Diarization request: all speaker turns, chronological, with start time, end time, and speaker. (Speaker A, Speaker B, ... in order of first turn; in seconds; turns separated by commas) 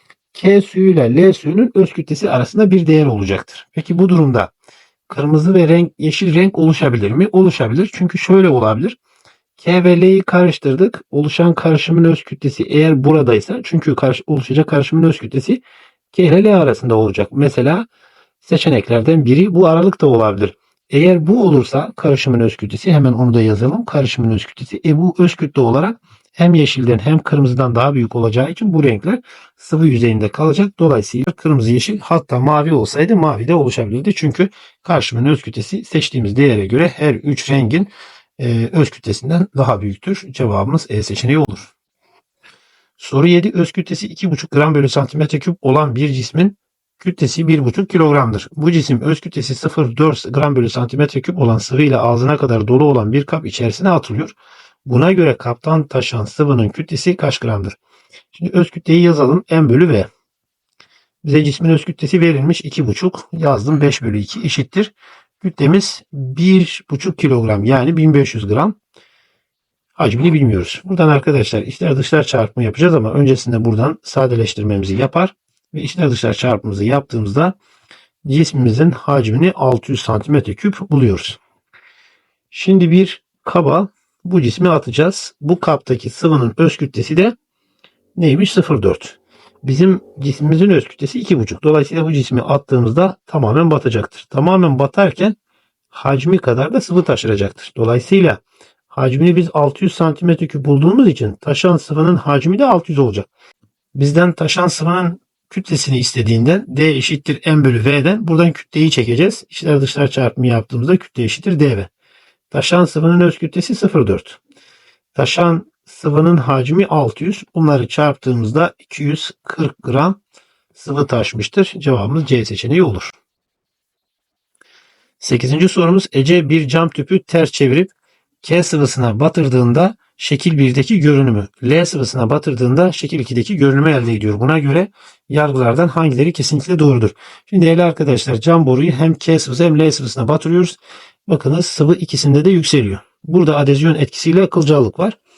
Speaker A: 0.3-4.5, Speaker A: 5.1-9.0, Speaker A: 9.6-15.6, Speaker A: 16.1-17.9, Speaker A: 18.4-41.7, Speaker A: 43.0-54.4, Speaker A: 54.9-57.8, Speaker A: 58.3-60.1, Speaker A: 61.2-68.8, Speaker A: 70.0-77.5, Speaker A: 78.2-81.4, Speaker A: 82.5-87.3, Speaker A: 88.2-95.3, Speaker A: 95.9-103.3, Speaker A: 104.0-111.9, Speaker A: 112.5-114.4, Speaker A: 115.2-120.2, Speaker A: 120.8-123.2, Speaker A: 125.2-127.9, Speaker A: 128.4-145.2